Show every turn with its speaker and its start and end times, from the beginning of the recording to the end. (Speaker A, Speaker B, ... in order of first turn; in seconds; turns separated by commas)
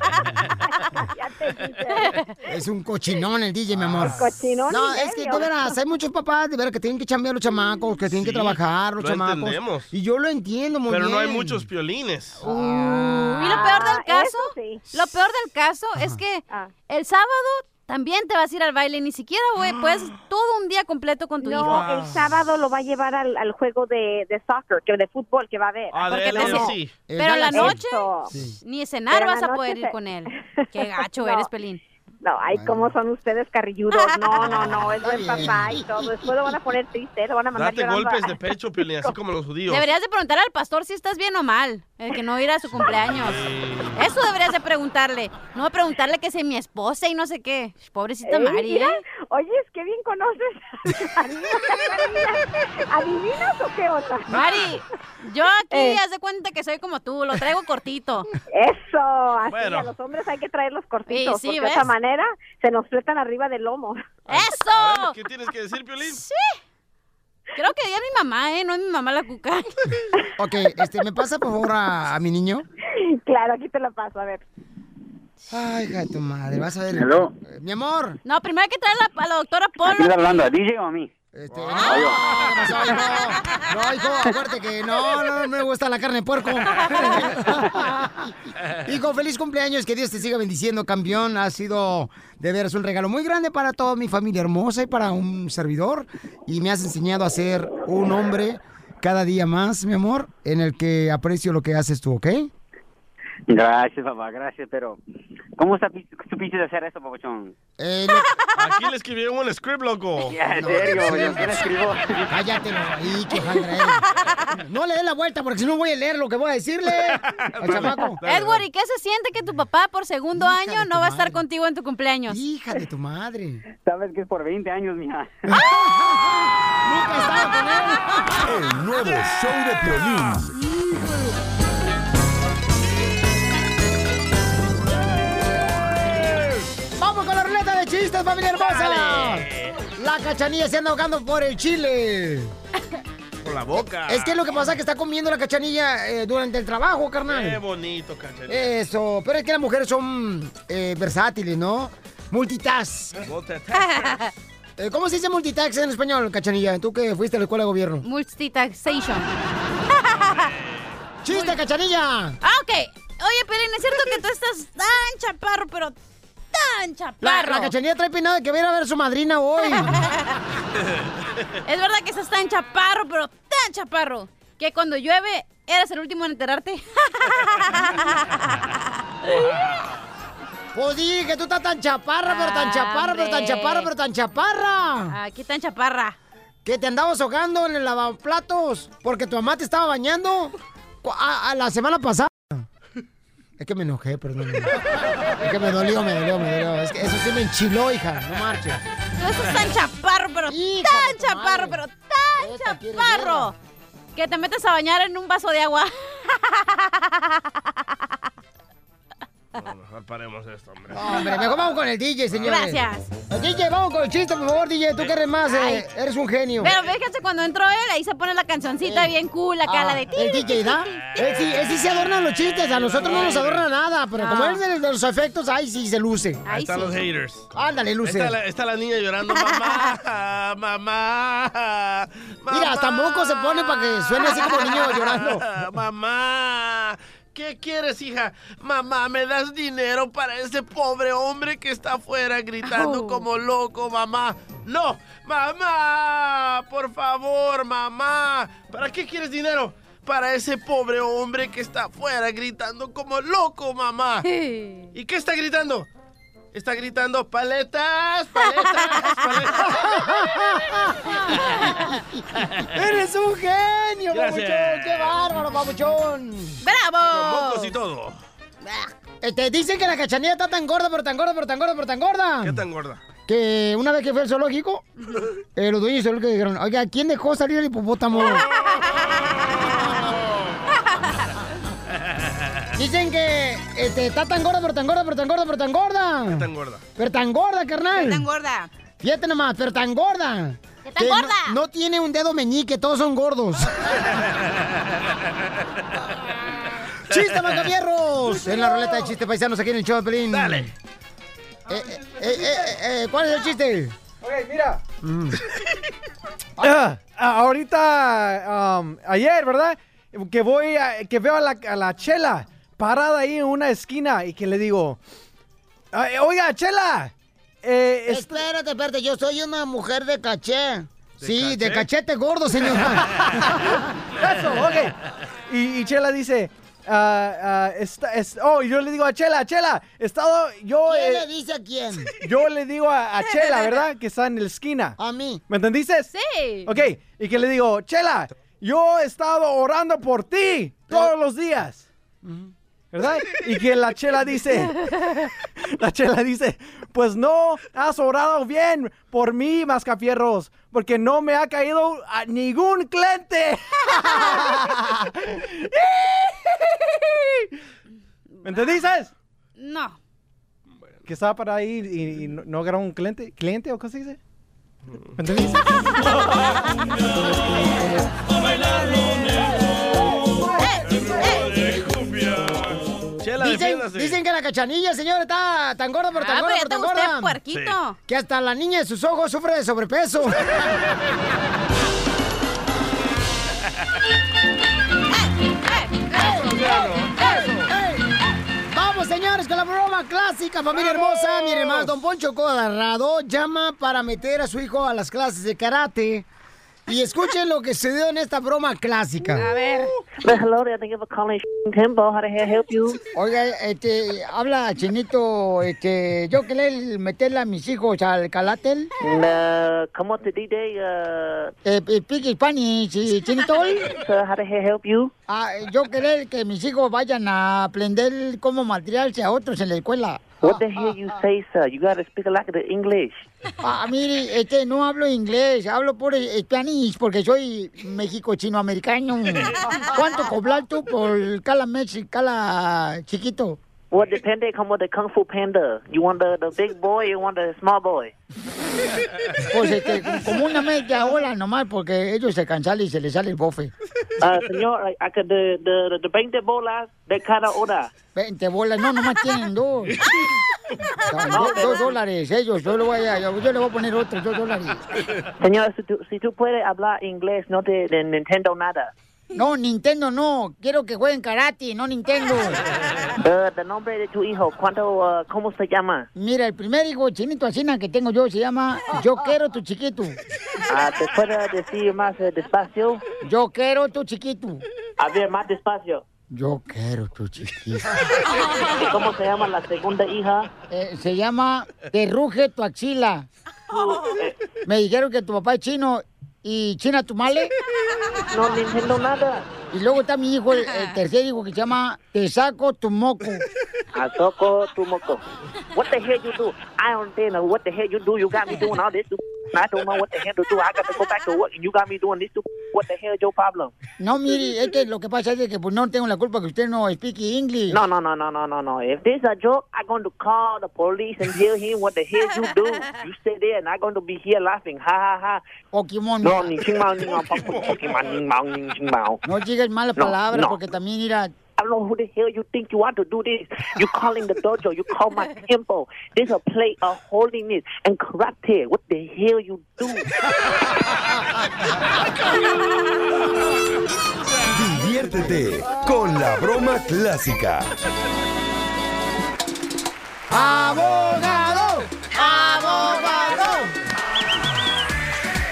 Speaker A: 1.0-2.2, Speaker B: 2.0-2.3, Speaker C: 2.5-11.7, Speaker D: 3.7-4.3, Speaker A: 4.2-5.7, Speaker D: 8.1-9.9, Speaker D: 10.9-12.4, Speaker B: 12.4-21.9, Speaker C: 12.4-13.5, Speaker A: 13.1-14.8, Speaker A: 21.4-26.7, Speaker D: 21.6-22.2, Speaker D: 25.9-27.0, Speaker B: 26.1-28.1, Speaker C: 27.1-28.6, Speaker A: 27.4-28.3, Speaker B: 28.6-31.8, Speaker A: 29.1-31.5, Speaker A: 32.2-38.4, Speaker C: 32.5-32.9, Speaker B: 33.9-34.4, Speaker C: 34.4-36.3, Speaker D: 37.5-39.8, Speaker B: 39.7-43.4, Speaker D: 43.1-44.1, Speaker B: 44.0-49.0, Speaker A: 48.2-54.4, Speaker B: 54.3-58.3, Speaker A: 55.7-56.0, Speaker A: 58.5-64.2, Speaker D: 59.5-59.9, Speaker B: 61.1-61.9, Speaker B: 64.3-65.2, Speaker D: 64.7-66.2, Speaker B: 66.0-66.6, Speaker B: 67.6-69.7, Speaker C: 70.4-72.7, Speaker A: 73.2-74.5, Speaker C: 75.5-78.2, Speaker E: 77.0-77.3, Speaker B: 78.2-80.5, Speaker E: 79.9-81.1, Speaker C: 81.3-88.3, Speaker D: 81.5-82.4, Speaker E: 81.9-82.1, Speaker C: 88.9-102.5, Speaker E: 103.5-105.0, Speaker E: 105.6-107.5, Speaker C: 107.8-108.3, Speaker D: 108.6-111.3, Speaker E: 110.3-112.2, Speaker C: 111.0-111.8, Speaker C: 112.3-114.0, Speaker C: 114.6-118.2, Speaker D: 117.0-118.7, Speaker B: 118.2-122.4, Speaker C: 120.3-121.4, Speaker C: 122.3-123.6, Speaker E: 123.8-125.5, Speaker C: 125.5-128.1, Speaker F: 128.4-130.5, Speaker C: 130.6-131.3, Speaker C: 137.0-142.5, Speaker D: 138.6-139.8, Speaker D: 143.4-144.5, Speaker C: 144.1-147.6, Speaker D: 147.3-148.7, Speaker C: 148.5-153.3, Speaker D: 153.2-154.2, Speaker B: 153.7-154.3, Speaker C: 154.8-158.1, Speaker B: 158.0-159.3, Speaker B: 160.0-160.4, Speaker D: 160.4-160.9, Speaker C: 161.2-162.4, Speaker B: 161.3-161.6, Speaker B: 162.4-165.9, Speaker B: 166.5-167.7, Speaker C: 167.2-169.9, Speaker B: 169.8-170.2, Speaker B: 171.7-178.7, Speaker B: 179.2-179.5, Speaker D: 179.3-179.8, Speaker C: 180.7-185.2, Speaker B: 182.3-183.9, Speaker B: 185.1-186.2, Speaker C: 186.7-192.7, Speaker C: 193.6-194.8, Speaker C: 195.4-198.8, Speaker B: 199.2-203.5, Speaker C: 200.5-201.8, Speaker C: 202.4-203.5, Speaker B: 204.2-207.4, Speaker D: 209.6-211.0, Speaker C: 210.9-216.7, Speaker B: 212.4-213.1, Speaker B: 215.5-215.8, Speaker B: 216.6-220.7, Speaker C: 218.8-219.1, Speaker C: 219.7-226.4, Speaker D: 222.4-223.7, Speaker B: 224.2-224.6, Speaker B: 226.5-227.0, Speaker D: 226.5-227.5, Speaker C: 227.5-228.4, Speaker D: 228.0-254.2, Speaker C: 232.5-235.4, Speaker B: 234.3-234.8, Speaker B: 242.6-243.2, Speaker B: 254.3-254.9, Speaker D: 254.9-255.9, Speaker D: 256.5-259.7, Speaker B: 258.8-259.2, Speaker C: 259.7-261.7, Speaker C: 262.7-266.6, Speaker D: 264.1-265.1, Speaker B: 266.6-267.8, Speaker D: 267.1-268.2, Speaker C: 268.6-272.6, Speaker D: 272.4-273.0, Speaker C: 273.3-274.9, Speaker C: 275.6-278.5, Speaker D: 278.2-279.1, Speaker D: 279.8-280.6, Speaker C: 282.8-288.3, Speaker D: 286.3-286.8, Speaker B: 287.9-288.7, Speaker C: 289.0-293.8, Speaker B: 290.9-291.6, Speaker C: 297.1-300.7, Speaker D: 300.3-300.7, Speaker C: 301.7-303.9, Speaker G: 301.7-302.7, Speaker G: 304.2-304.8, Speaker C: 305.0-305.4, Speaker G: 306.6-315.0, Speaker G: 315.9-317.1, Speaker G: 317.6-318.4, Speaker C: 318.1-323.1, Speaker D: 321.2-321.9, Speaker G: 324.2-324.9, Speaker G: 325.5-331.3, Speaker C: 330.9-332.1, Speaker G: 332.2-335.0, Speaker C: 335.0-335.4, Speaker G: 335.5-336.1, Speaker B: 336.1-336.7, Speaker G: 336.7-341.9, Speaker C: 342.2-342.5, Speaker G: 342.9-357.2, Speaker G: 358.4-359.1, Speaker B: 359.6-360.0, Speaker G: 361.1-364.2, Speaker G: 365.2-365.7, Speaker D: 368.4-369.5, Speaker B: 370.6-371.6, Speaker D: 370.9-374.2, Speaker C: 373.4-377.4, Speaker B: 376.1-378.0, Speaker C: 378.1-380.4, Speaker B: 385.1-386.2, Speaker C: 386.1-388.0, Speaker D: 386.2-387.6, Speaker C: 388.7-396.3, Speaker D: 390.9-391.9, Speaker C: 396.9-399.5, Speaker B: 399.4-399.9, Speaker H: 400.2-403.0, Speaker C: 403.1-408.9, Speaker H: 409.0-411.5, Speaker C: 411.6-413.8, Speaker H: 413.6-415.1, Speaker C: 415.3-420.6, Speaker H: 420.4-423.3, Speaker C: 423.6-433.6, Speaker H: 433.9-438.1, Speaker C: 439.5-443.7, Speaker H: 444.2-447.9, Speaker C: 448.1-450.0, Speaker B: 451.1-451.9, Speaker C: 451.1-454.9, Speaker H: 451.3-451.9, Speaker H: 455.4-458.9, Speaker C: 459.3-462.6, Speaker H: 463.2-466.1, Speaker C: 466.1-470.2, Speaker H: 470.7-473.0, Speaker C: 473.2-474.6, Speaker H: 475.0-476.0, Speaker C: 476.3-477.9, Speaker H: 478.7-480.5, Speaker C: 480.7-483.3, Speaker B: 483.7-484.2, Speaker H: 483.8-484.3, Speaker C: 484.7-487.5, Speaker H: 488.3-489.5, Speaker C: 489.7-493.4, Speaker B: 490.6-490.9, Speaker H: 493.9-503.7, Speaker C: 504.0-507.8, Speaker H: 507.7-515.4, Speaker C: 515.7-516.6, Speaker H: 516.2-519.2, Speaker D: 517.2-517.9, Speaker C: 519.2-521.3, Speaker H: 520.0-520.6, Speaker H: 521.6-530.1, Speaker F: 534.5-537.7, Speaker C: 540.3-543.7, Speaker B: 542.9-543.1